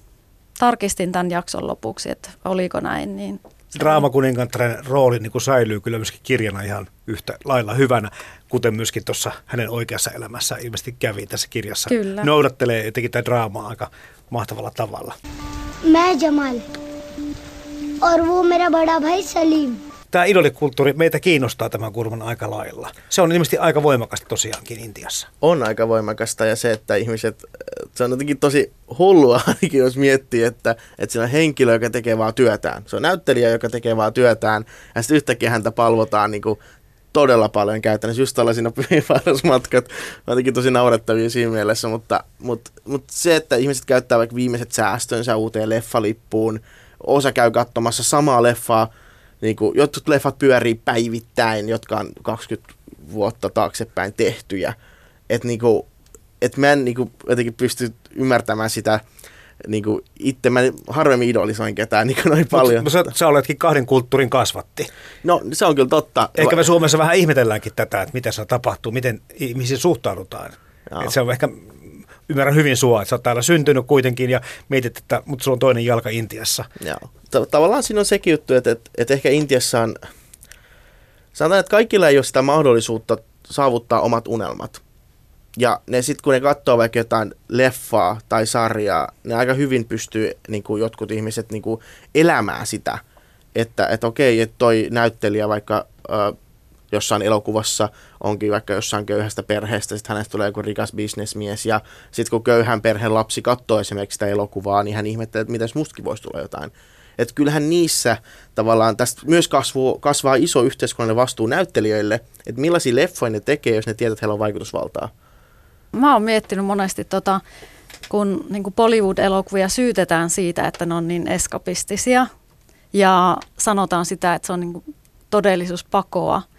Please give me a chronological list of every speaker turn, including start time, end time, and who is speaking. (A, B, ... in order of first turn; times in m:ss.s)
0:00.6-0:04.0 A
0:03.8-0:15.2 B
0:11.9-0:12.3 A
0:15.8-0:16.6 C
0:18.0-0:19.8 C
0:20.1-0:25.3 B
0:25.4-0:36.6 D
0:37.1-0:54.8 D
0:55.3-0:55.9 D
0:56.4-0:59.0 D
0:59.6-1:03.1 D
1:02.5-1:04.9 B
1:05.2-1:06.7 D
1:06.4-1:16.7 B
1:10.9-1:11.1 D
1:16.8-1:20.0 D
1:21.3-1:24.8 D
1:25.6-1:33.0 D
1:33.5-1:36.4 D
1:36.9-1:55.1 D
1:55.9-1:57.4 A
1:58.1-2:02.3 A
2:02.9-2:06.4 A